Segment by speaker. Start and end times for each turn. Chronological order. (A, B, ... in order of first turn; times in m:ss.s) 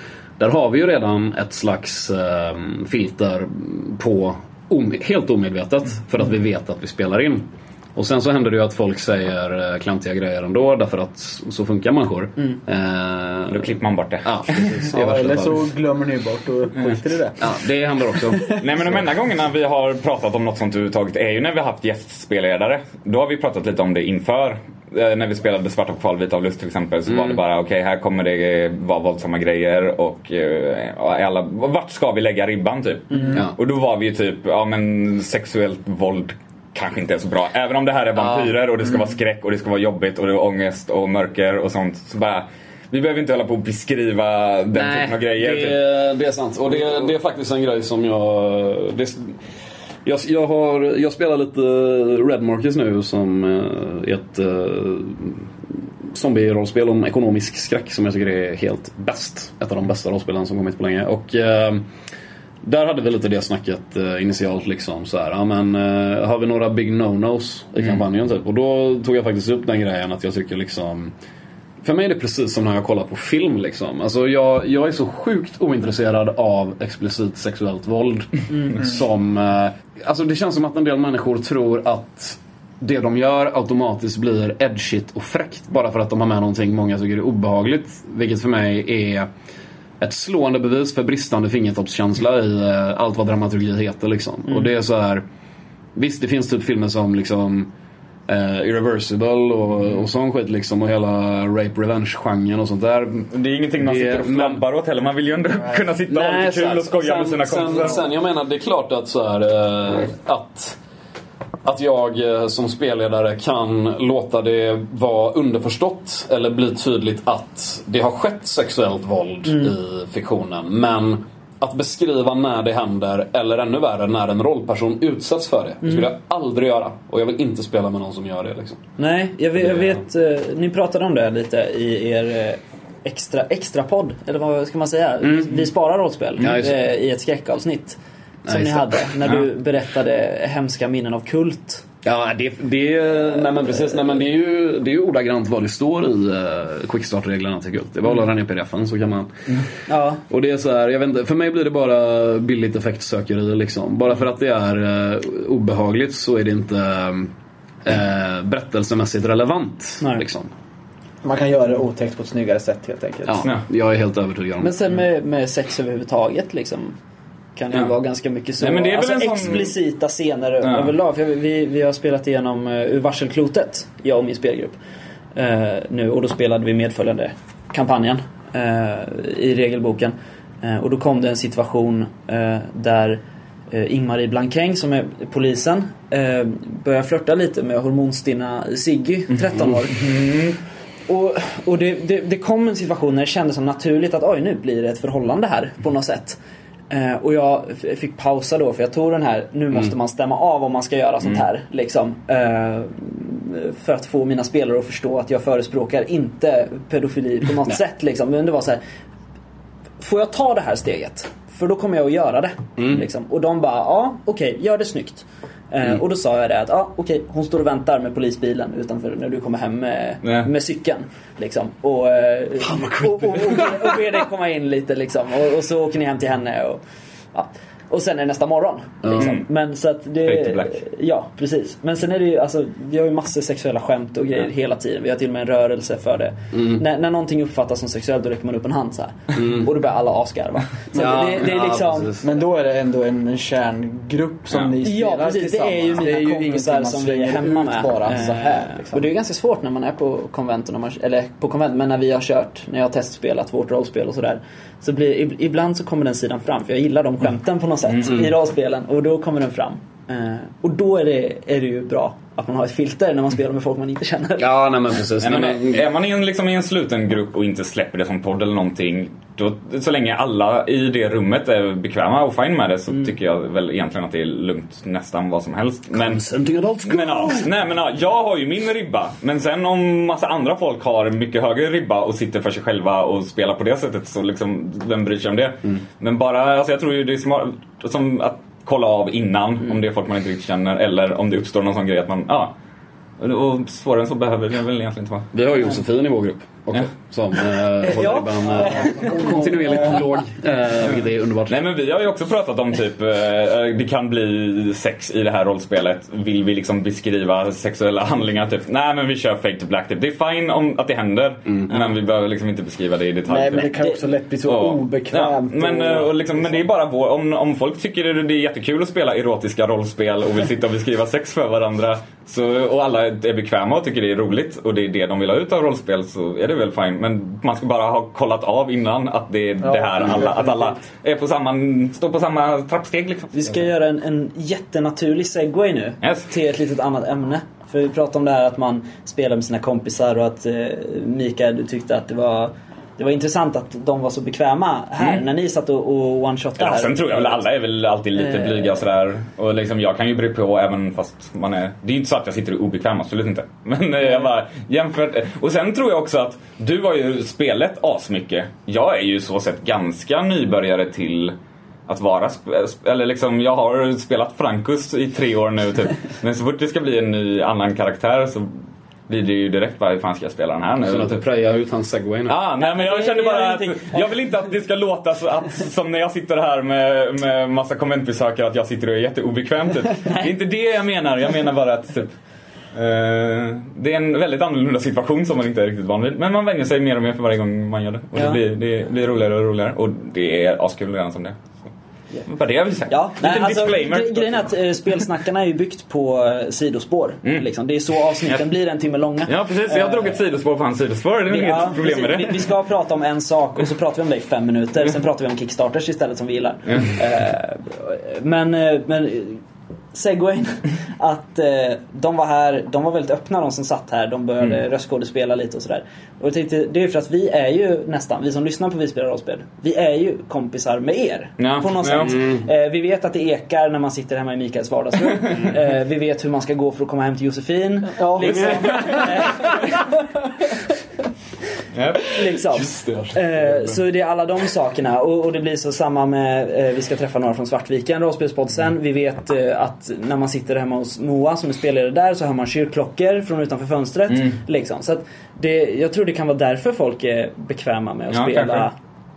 0:00.4-0:15.6 A
0:13.5-0:14.7 B
0:14.9-0:17.5 C
0:17.4-0:19.0 A
0:18.6-0:45.8 B
0:27.1-0:27.4 A
0:33.1-0:33.4 D
0:38.2-0:38.5 A
0:44.7-0:49.4 A
0:50.0-1:01.9 A
1:02.6-1:11.1 A
1:11.8-1:29.3 A
1:18.5-1:18.8 D
1:30.0-1:35.2 A
1:36.0-1:37.7 A
1:38.3-1:44.6 A
1:43.3-1:48.1 B
1:45.7-1:50.8 A
1:51.6-2:08.8 A
2:05.8-2:06.1 D
2:09.0-2:21.8 D
2:15.2-2:15.7 A
2:16.4-2:16.8 A
2:18.4-2:19.1 A
2:22.0-2:29.6 A
2:29.9-2:30.2 D
2:30.3-2:37.3 A
2:37.8-2:40.5 A
2:41.2-2:43.4 C
2:43.2-2:44.7 A
2:44.6-2:47.0 D
2:47.6-2:54.8 D
2:48.6-2:49.7 B
2:50.6-2:50.9 B
2:55.4-3:10.3 D
3:09.9-3:10.6 B
3:11.1-3:16.4 D
3:16.9-3:28.8 D
3:30.0-3:46.8 D
3:32.8-3:33.0 A
3:40.2-3:40.5 B
3:42.6-3:43.9 A
3:47.3-4:02.1 D
3:49.0-3:49.3 A
3:49.1-3:49.4 B
3:50.2-3:50.8 B
3:56.5-3:56.8 A
3:59.4-3:59.7 A
4:00.9-4:02.2 A
4:02.2-4:09.0 C
4:04.8-4:24.5 D
4:17.8-4:18.2 B
4:18.1-4:18.3 A
4:24.4-4:25.9 A
4:25.2-4:36.2 B
4:35.9-4:37.5 A
4:36.8-4:52.5 B
4:53.2-4:55.3 B
4:55.3-5:01.5 A
4:57.8-5:00.0 D
4:58.9-4:59.2 C
4:59.4-4:59.7 B
5:00.8-5:13.7 B
5:11.5-5:11.8 A
5:13.3-5:16.5 C
5:14.4-5:33.4 B
5:29.6-5:30.8 C
5:33.3-5:47.4 D
5:36.0-5:36.3 B
5:46.6-6:01.3 B
5:48.2-5:48.8 D
6:01.9-6:08.5 B
6:09.1-6:11.2 B
6:10.8-6:12.4 A
6:12.3-6:22.2 B
6:12.6-6:13.9 D
6:22.7-6:31.7 B
6:28.1-6:28.4 D
6:32.2-6:34.5 B
6:32.9-6:40.2 D
6:39.2-6:42.5 B
6:41.3-6:49.4 D
6:49.9-7:09.9 D
7:01.4-7:02.2 B
7:02.0-7:02.4 A
7:05.1-7:05.5 B
7:08.0-7:09.4 C
7:08.2-7:09.5 B
7:11.7-7:12.2 B
7:12.1-7:28.7 D
7:12.5-7:13.8 A
7:24.1-7:24.4 B
7:28.1-7:28.7 B